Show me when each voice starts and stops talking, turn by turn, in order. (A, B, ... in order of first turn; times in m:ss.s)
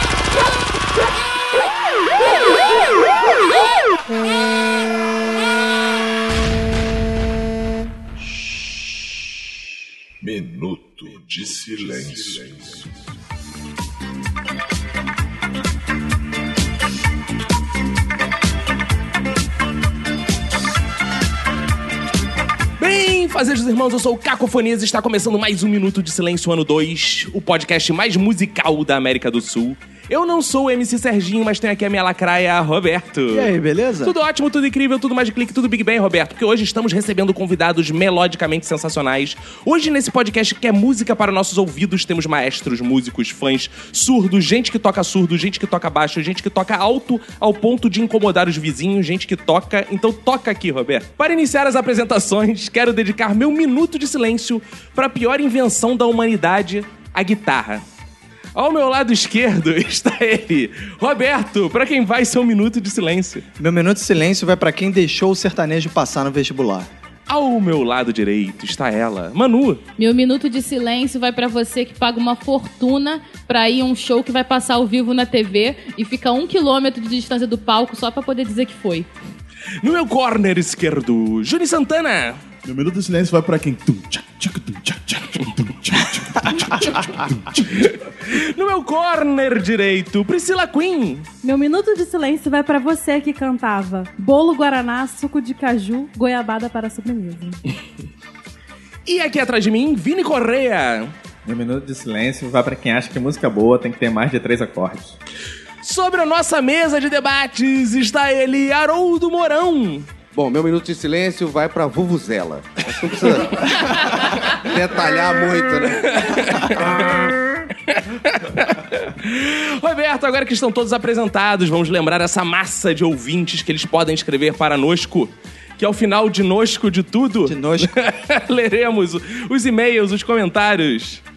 0:10.2-0:12.9 A
0:22.8-0:57.8 B
0:33.3-0:34.1 C
0:58.5-1:03.4 B
1:03.6-1:06.9 C
1:07.3-1:09.8 B
1:10.0-1:19.1 D
1:19.8-1:22.4 B
1:22.6-1:27.8 E
1:27.5-1:31.3 B
1:31.4-1:37.6 F
1:39.0-1:41.1 B
1:41.4-1:45.2 G
1:45.8-1:50.1 B
1:50.3-1:56.3 H
1:56.0-2:11.2 B
2:07.4-2:08.0 C